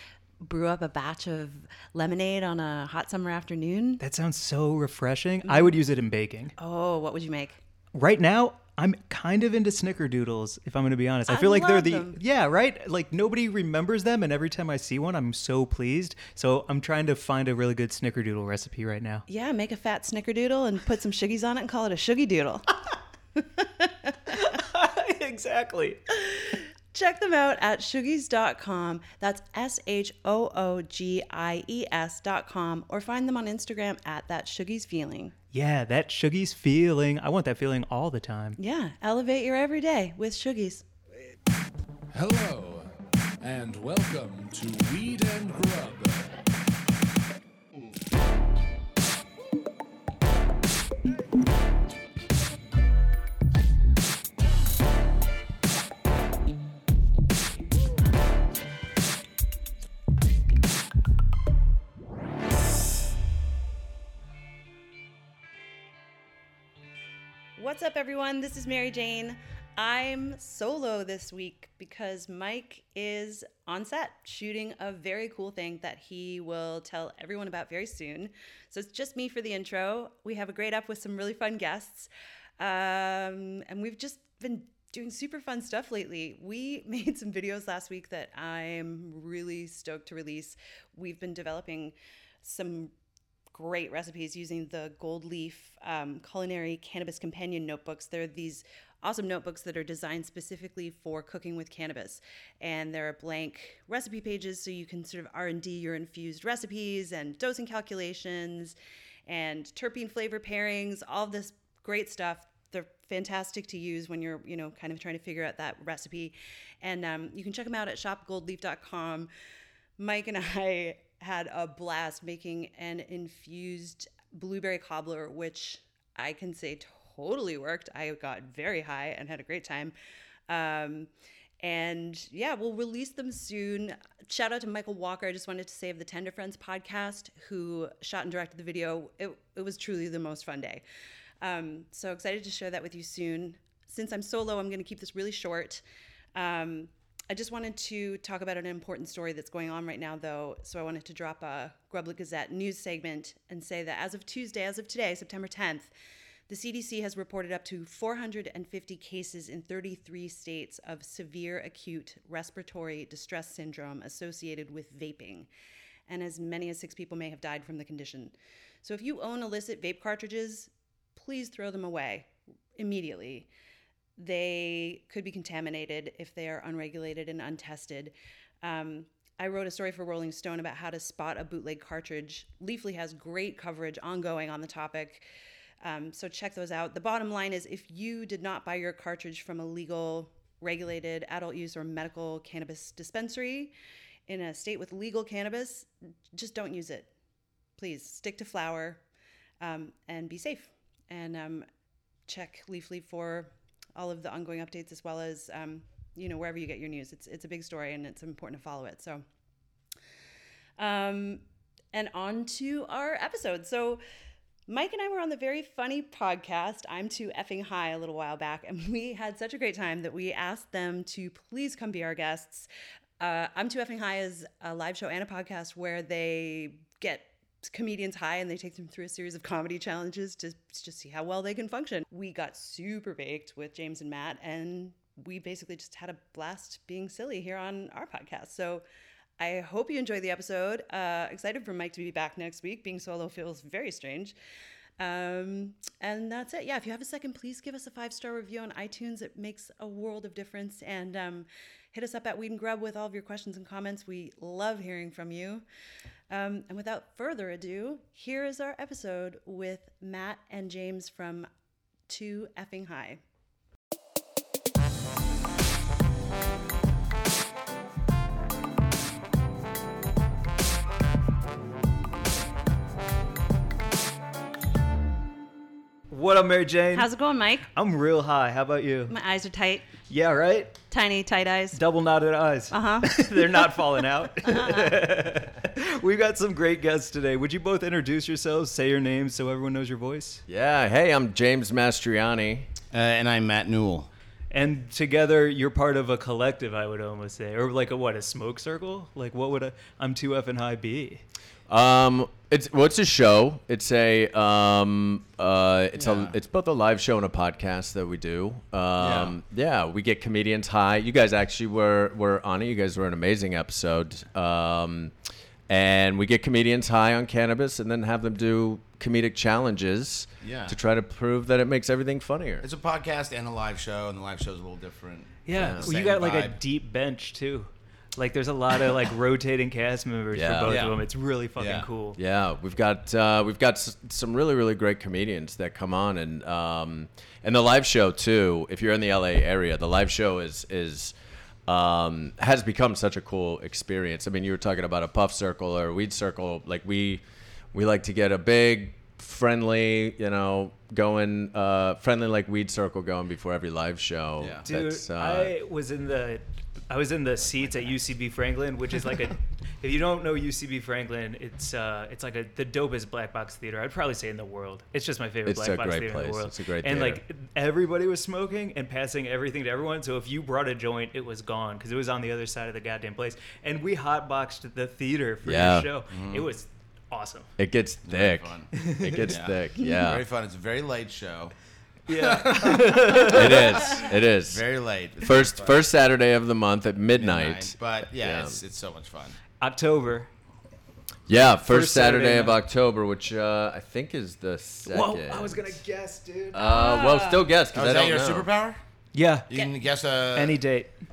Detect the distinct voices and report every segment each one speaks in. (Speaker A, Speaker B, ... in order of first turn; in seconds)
Speaker A: 0.4-4.0, 5.4-5.8, 6.6-7.6, 11.3-12.2, 19.3-22.6, 23.4-24.2, 26.1-35.3, 38.6-40.8, 67.5-92.9, 93.5-108.7, 109.3-119.3, 120.0-129.9, 130.5-131.1, 131.6-140.8, 141.4-145.8, 146.3-155.9, 156.5-165.5, 166.1-173.5, 174.2-185.2, 185.8-193.7, 194.3-197.1, 197.8-199.0, 199.6-201.7, 202.3-209.2, 210.8-214.0, 214.7-222.7, 223.2-238.8, 239.4-244.3, 245.0-255.6, 256.3-261.5, 262.1-263.2, 276.9-277.6, 279.1-279.9, 280.9-281.8, 282.7-283.3, 284.4-285.0, 396.5-397.4
Speaker B: 4.0-6.5, 7.9-19.2, 24.3-26.0, 35.5-38.6, 276.1-277.1, 277.7-279.1, 280.1-280.8, 281.7-290.4, 294.5-301.2, 325.4-332.2, 354.6-377.5, 378.7-379.3, 382.1-383.9, 389.6-390.3, 391.4-392.6, 394.8-396.6, 399.1-399.5, 400.3-400.9
Speaker C: 42.1-42.9, 43.4-46.3
Speaker D: 290.5-292.7, 301.7-315.1, 315.7-322.6, 325.5-325.9, 330.3-330.9, 332.1-341.1, 341.7-347.2, 347.7-355.5, 365.4-367.2, 375.4-375.9, 377.6-380.2, 383.2-384.6, 385.2-388.6, 391.3-395.7, 396.5-398.5
Speaker E: 292.9-294.1, 305.9-306.4, 309.0-309.4, 320.4-320.8, 322.6-326.6, 331.6-331.9, 354.4-354.7, 376.1-376.4, 378.1-381.5, 382.1-385.9, 387.2-389.4, 397.7-398.8, 399.5-400.6